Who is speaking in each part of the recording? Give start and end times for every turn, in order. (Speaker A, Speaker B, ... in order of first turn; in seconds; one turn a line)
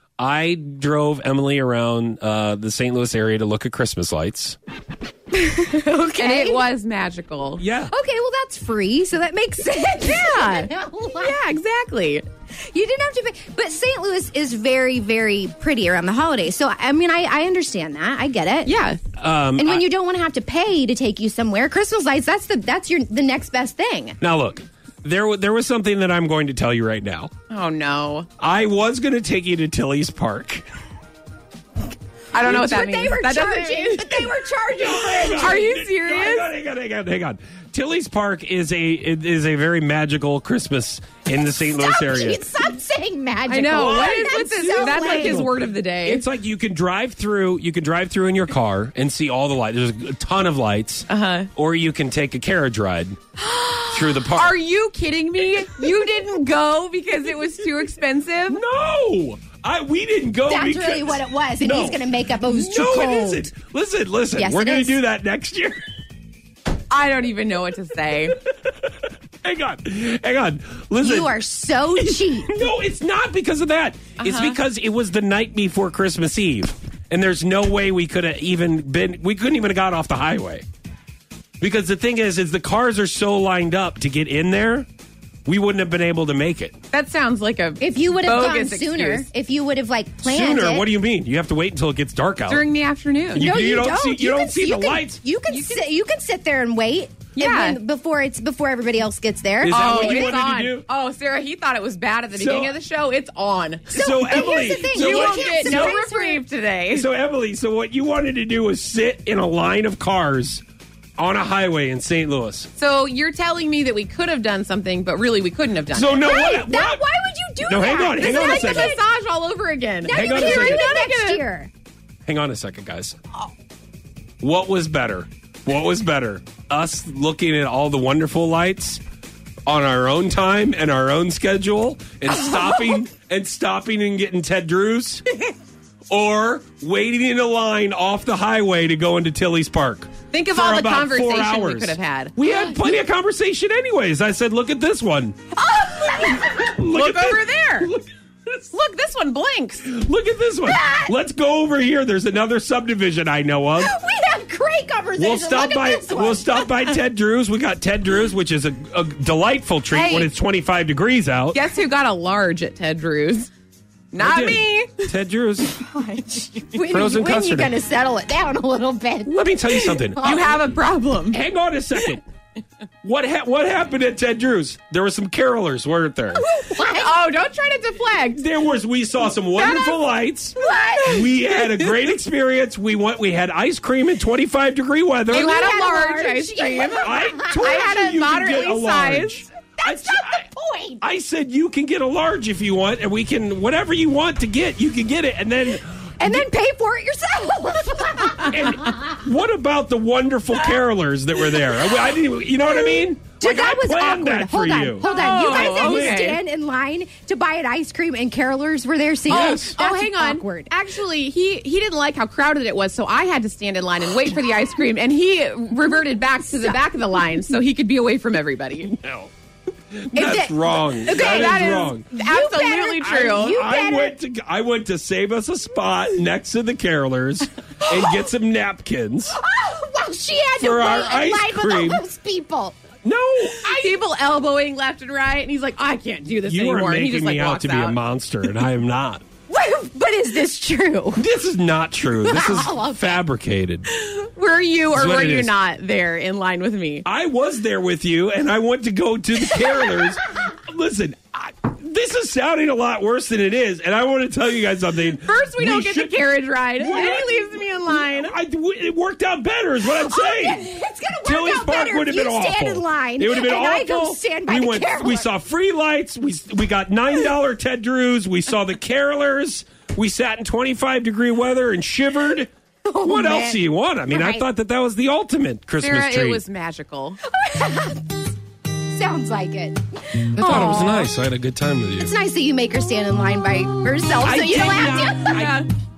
Speaker A: 0.2-4.6
Speaker B: 5.5-6.6
Speaker C: 6.1-7.6
Speaker A: 7.6-7.9
Speaker B: 7.9-11.4
Speaker C: 10.0-12.2
Speaker B: 12.7-18.8
Speaker C: 18.7-19.0
Speaker A: 19.2-19.9
Speaker B: 19.6-24.2
Speaker A: 24.2-27.3
Speaker C: 27.5-28.3
Speaker A: 28.4-30.6
Speaker C: 32.3-34.4
Speaker B: 32.3-35.7
Speaker A: 34.8-42.4
Speaker C: 35.3-36.5
Speaker B: 41.4-45.5
Speaker C: 43.5-46.2
Speaker A: 43.7-53.2
Speaker C: 51.1-51.5
Speaker C: 53.4-58.6
Speaker A: 53.9-54.6
Speaker A: 58.5-65.8
Speaker B: 60.5-63.5
Speaker B: 64.4-65.0
Speaker C: 66.9-68.3
Speaker A: 69.4-71.3
Speaker B: 71.0-72.6
Speaker A: 72.0-80.7
Speaker C: 74.2-74.6
Speaker A: 81.6-84.9
Speaker A: 85.5-86.7
Speaker C: 86.9-89.3
Speaker B: 87.8-90.9
Speaker A: 90.2-92.6
Speaker C: 92.5-93.5
Speaker A: 93.3-95.2
Speaker B: 93.4-100.4
Speaker C: 95.5-95.9
Speaker C: 97.4-97.8
Speaker A: 99.6-100.9
Speaker C: 99.7-107.1
Speaker A: 102.3-102.8
Speaker A: 103.9-106.0
Speaker B: 103.9-106.4
Speaker A: 106.9-110.6
Speaker A: 111.2-112.7
Speaker C: 112.8-116.4
Speaker A: 115.9-117.0
Speaker B: 116.2-119.0
Speaker A: 117.7-118.9
Speaker C: 118.2-121.5
Speaker B: 120.0-121.7
Speaker A: 120.1-120.8
Speaker A: 122.2-123.2
Speaker A: 124.4-129.0
Speaker A: 129.7-135.2
Speaker A: 136.1-145.4
Speaker C: 140.3-142.3
Speaker B: 145.6-146.8
Speaker A: 146.3-148.6
Speaker C: 146.9-147.9
Speaker C: 148.7-149.8
Speaker A: 149.8-153.9
Speaker B: 150.7-151.1
Speaker B: 153.8-156.9
Speaker A: 155.2-161.6
Speaker C: 159.9-160.3
Speaker C: 161.5-163.5
Speaker C: 164.1-165.1
Speaker A: 164.2-165.8
Speaker B: 165.8-170.5
Speaker A: 166.8-167.8
Speaker A: 169.2-170.5
Speaker C: 170.1-171.4
Speaker A: 171.3-172.2
Speaker A: 173.0-176.4
Speaker B: 176.3-177.2
Speaker C: 176.7-178.4
Speaker A: 178.3-185.6
Speaker B: 179.6-180.0
Speaker B: 180.6-181.4
Speaker C: 181.2-182.0
Speaker C: 185.3-189.4
Speaker B: 185.3-187.9
Speaker A: 187.0-190.4
Speaker B: 189.8-191.0
Speaker A: 191.0-196.4
Speaker B: 196.2-199.2
Speaker A: 198.4-206.2
Speaker B: 201.8-210.7
Speaker C: 205.0-206.4
Speaker A: 209.3-209.8
Speaker C: 209.3-218.9
Speaker B: 216.5-216.8
Speaker A: 218.9-219.3
Speaker A: 219.9-222.1
Speaker B: 220.2-224.2
Speaker C: 221.0-223.6
Speaker A: 223.0-229.4
Speaker B: 227.9-228.3
Speaker B: 229.4-232.8
Speaker A: 230.6-232.0
Speaker A: 233.0-233.7
Speaker C: 233.6-238.0
Speaker B: 233.6-234.0
Speaker A: 236.5-239.2
Speaker B: 239.5-241.2
Speaker A: 241.2-243.9
Speaker B: 242.2-243.2
Speaker C: 243.9-247.1
Speaker A: 244.9-245.5
Speaker A: 247.1-256.2
Speaker B: 249.6-250.1
Speaker C: 255.2-258.4
Speaker A: 256.8-260.6
Speaker B: 259.8-265.3
Speaker A: 261.2-272.5
Speaker B: 272.9-274.5
Speaker A: 273.0-276.4
Speaker C: 275.8-277.2
Speaker B: 277.2-278.2
Speaker B: 278.9-281.1
Speaker A: 280.4-282.1
Speaker B: 282.0-285.5
Speaker A: 284.2-285.5
Speaker C: 285.2-285.7